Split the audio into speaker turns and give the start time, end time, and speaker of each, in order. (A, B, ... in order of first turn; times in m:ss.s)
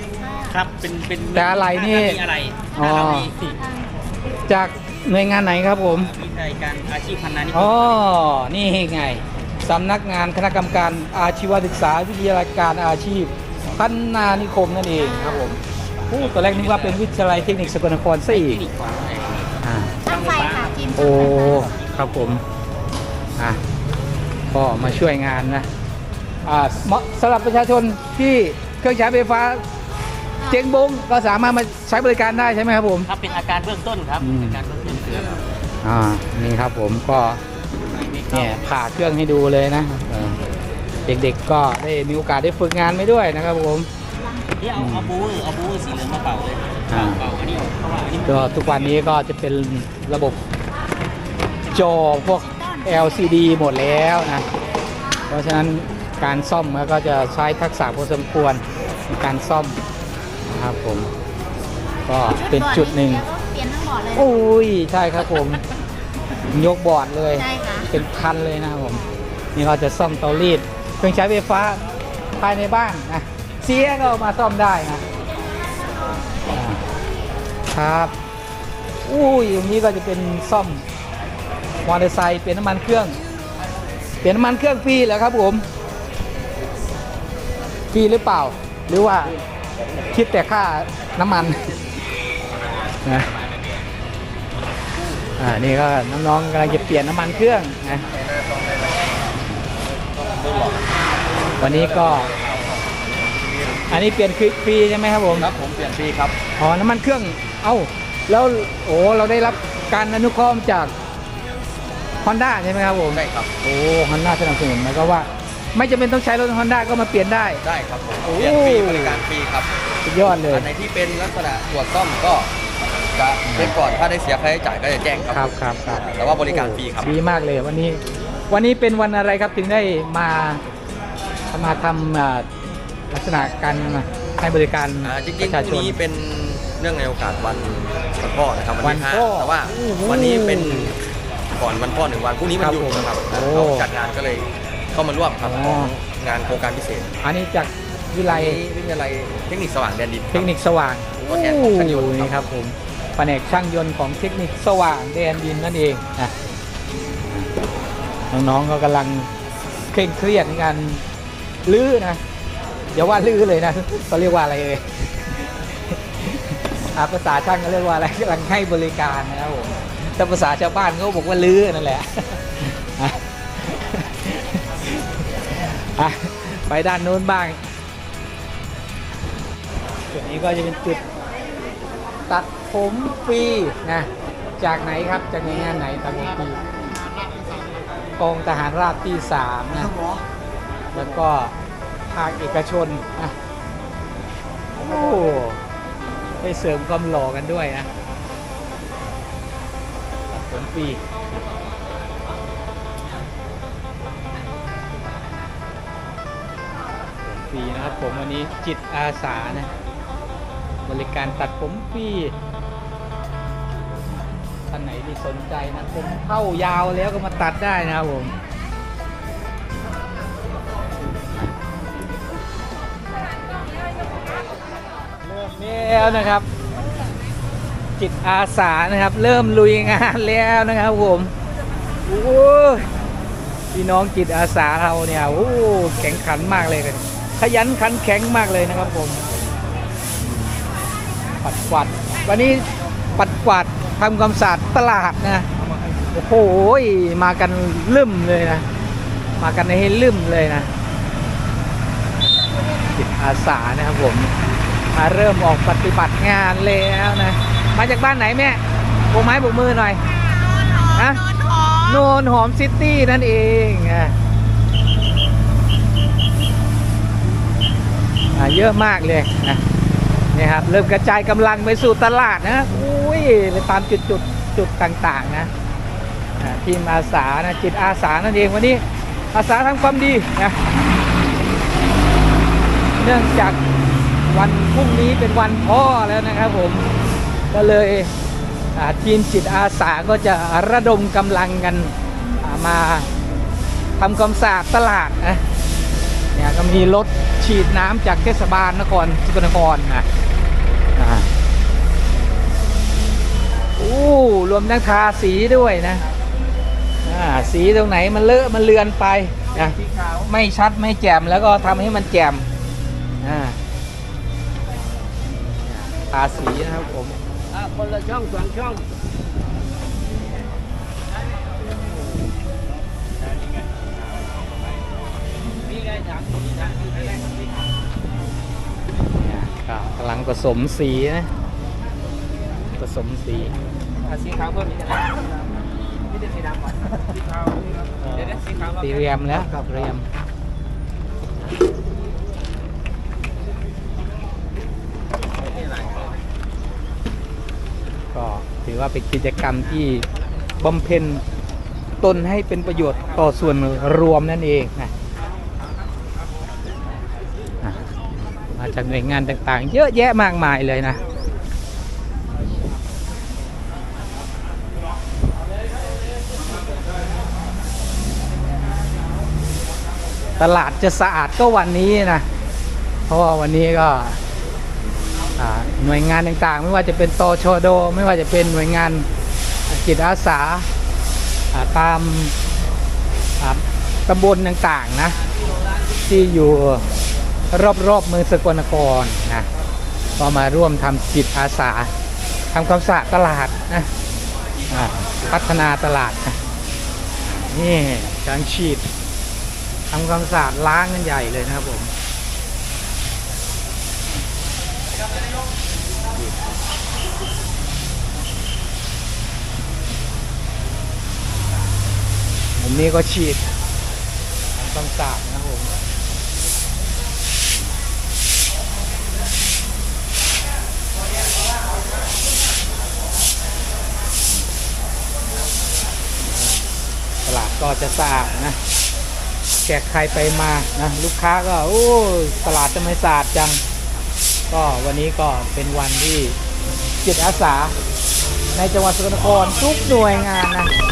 0:00.2-0:00.6 A
0:00.5-0:03.6 B
0:01.3-0:02.2 C
0:02.8-0:03.3 C
0:03.5-0:03.9 A
0:04.5-0:06.1 C
0:06.0-0:07.9 B
0:07.5-0:18.6 C
0:15.2-0:15.5 A
0:16.2-0:17.1 B
0:18.3-0:20.8 B
0:19.6-0:20.0 C
0:20.1-0:21.6 A
0:21.0-0:22.4 C
0:21.6-0:22.0 B
0:24.5-0:25.7 C
0:26.4-0:29.6 C
0:30.5-0:33.1 C
0:33.1-0:35.4 B
0:34.2-0:34.6 C
0:35.8-0:37.4 C
0:37.9-0:38.6 B
0:38.3-0:40.4 C
0:41.1-0:43.9 C
0:44.6-0:49.0 B
0:44.8-0:45.1 C
0:46.9-0:47.3 C
0:48.3-0:50.4 C
0:51.7-0:54.4 C
0:52.5-0:53.8 A
0:55.3-0:59.8 C
1:00.5-1:01.1 C
1:02.1-1:03.2 C
1:02.3-1:04.3 A
1:04.1-1:05.6 C
1:06.5-1:09.0 C
1:07.4-1:07.9 A
1:09.6-1:11.8 C
1:12.4-1:15.0 C
1:16.5-1:16.8 C
1:17.7-1:18.1 C
1:19.0-1:20.8 C
1:21.8-1:23.2 C
1:24.2-1:25.6 C
1:27.9-1:29.4 C
1:30.1-1:31.7 C
1:33.0-1:33.3 C
1:35.4-1:38.0 C
1:38.2-1:39.0 D
1:40.2-1:40.9 D
1:41.6-1:42.3 C
1:41.6-1:43.8 D
1:43.9-1:45.5 C
1:45.3-1:46.4 D
1:46.6-1:50.9 C
1:52.2-1:57.6 C
1:53.1-1:53.5 D
1:57.6-1:59.7 D
1:58.2-1:59.2 C
2:00.0-2:00.7 C
2:00.4-2:02.5 D
2:03.1-2:07.1 D
2:03.5-2:03.7 C
2:05.3-2:10.6 C
2:11.5-2:12.5 C
2:13.1-2:16.0 C
2:15.0-2:21.0 D
2:18.8-2:21.0 C
2:21.5-2:27.1 D
2:22.6-2:23.9 C
2:25.4-2:25.9 C
2:27.2-2:28.6 C
2:28.3-2:30.5 D
2:30.3-2:36.3 C
2:31.2-2:32.4 D
2:38.3-2:39.3 C
2:39.9-2:41.0 C
2:41.7-2:42.2 C
2:42.9-2:44.9 C
2:46.2-2:57.6 C
3:00.1-3:01.0 C
3:02.3-3:06.6 C
3:08.2-3:10.0 C
3:10.9-3:11.6 C
3:12.1-3:13.3 C
3:14.8-3:15.6 C
3:16.4-3:17.9 C
3:20.3-3:21.0 C
3:27.2-3:29.7 C
3:30.9-3:32.4 C
3:34.7-3:38.3 C
3:45.3-3:46.5 C
3:48.0-3:51.3 C
3:52.1-3:52.9 C
3:53.7-3:59.2 C
4:01.4-4:05.5 C
4:06.1-4:08.7 C
4:09.4-4:10.7 C
4:12.9-4:14.3 C
4:14.9-4:20.0 C
4:20.8-4:24.2 C
4:28.4-4:29.6 C
4:30.3-4:35.5 C
4:36.4-4:40.6 C
4:43.0-4:43.6 C
4:44.3-4:46.9 C
4:47.5-4:48.1 C
4:48.8-4:53.1 C
4:54.0-4:55.4 C
4:56.3-5:00.1 C
5:01.0-5:01.3 C
5:03.8-5:06.1 C
5:07.0-5:12.4 C
5:13.2-5:13.6 C
5:15.6-5:17.2 C
5:17.5-5:18.9 B
5:23.3-5:23.9 B
5:25.6-5:27.6 B
5:29.2-5:31.3 C
5:32.7-5:33.6 C
5:34.0-5:35.2 B
5:36.3-5:36.8 B
5:38.1-5:38.6 B
5:38.5-5:40.0 C
5:48.1-5:50.1 C
5:50.6-5:51.2 C
5:52.0-5:54.9 C
5:57.6-5:57.9 C
5:58.4-6:01.0 C
6:10.4-6:12.3 C
6:13.1-6:14.2 C
6:15.4-6:19.1 C
6:19.7-6:20.7 C
6:21.5-6:22.3 C
6:23.4-6:25.2 C
6:26.0-6:26.8 C
6:27.5-6:29.5 C
6:30.2-6:31.9 C
6:32.5-6:33.9 C
6:34.7-6:36.4 C
6:37.2-6:38.8 C
6:39.9-6:41.9 C
6:52.6-6:53.5 C
6:54.6-6:55.7 C
7:07.2-7:08.6 C
7:09.6-7:13.6 C
7:14.5-7:16.4 C
7:17.0-7:17.7 C
7:18.6-7:20.7 C